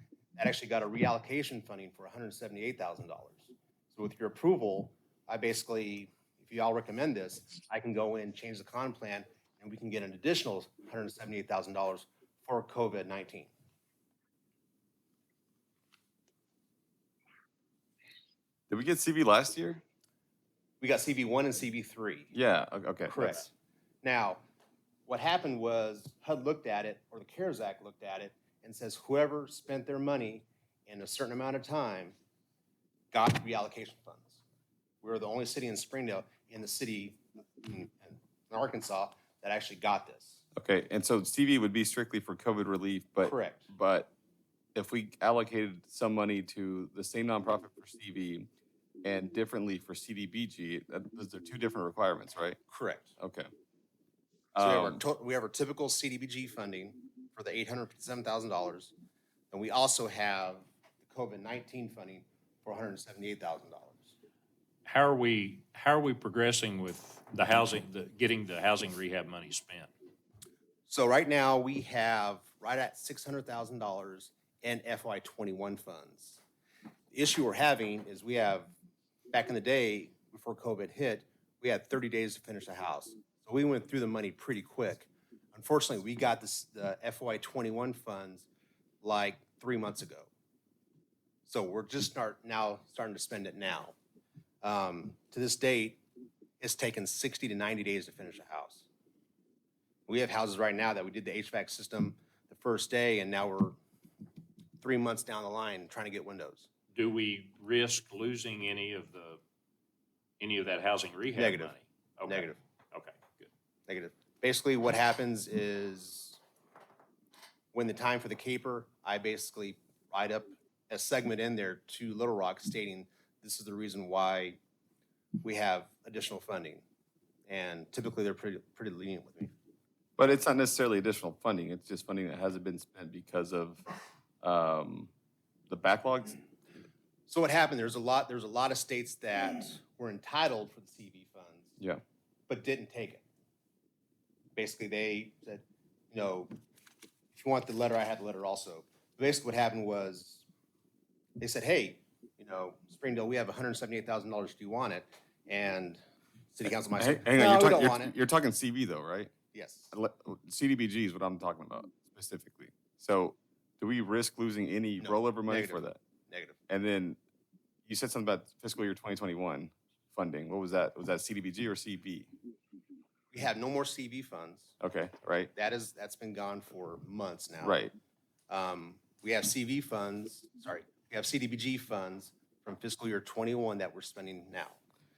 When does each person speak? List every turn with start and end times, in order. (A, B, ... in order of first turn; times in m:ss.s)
0:00.4-0:13.5 A
0:18.7-0:19.8 B
0:20.8-0:22.3 A
0:22.3-0:23.5 B
0:23.1-0:23.5 A
0:24.0-0:24.4 A
0:25.1-0:32.2 A
0:33.1-0:34.4 A
0:35.0-0:40.4 A
0:40.6-0:44.1 B
0:43.2-0:43.7 A
0:44.8-0:48.5 B
0:49.0-0:52.6 B
0:52.7-0:53.1 A
0:53.2-0:53.5 B
0:54.6-0:55.0 B
0:54.6-0:58.9 A
0:59.5-1:04.1 A
1:04.8-1:09.9 C
1:10.9-1:16.4 A
1:17.1-1:18.7 A
1:19.3-1:28.5 A
1:29.0-1:30.3 A
1:31.4-1:34.0 A
1:34.6-1:36.0 A
1:36.6-1:38.9 A
1:40.1-1:43.8 A
1:44.8-1:46.7 A
1:46.9-1:49.4 C
1:50.4-1:53.5 C
1:51.3-1:51.7 A
1:52.2-1:52.6 A
1:53.9-1:56.4 A
1:57.7-2:04.6 A
2:05.4-2:06.8 A
2:07.5-2:09.5 A
2:10.2-2:13.8 B
2:14.4-2:15.1 B
2:15.7-2:16.4 B
2:17.3-2:21.7 A
2:22.5-2:23.2 A
2:24.6-2:26.5 A
2:27.3-2:30.4 A
2:31.4-2:36.0 A
2:36.5-2:38.1 A
2:37.0-2:39.3 B
2:39.5-2:39.9 A
2:39.9-2:46.0 B
2:45.0-2:46.6 A
2:46.7-2:47.2 B
2:47.8-2:52.3 B
2:53.3-2:54.7 A
2:54.8-2:55.5 B
2:55.5-2:57.8 A
2:57.6-2:57.9 B
2:58.5-3:04.8 A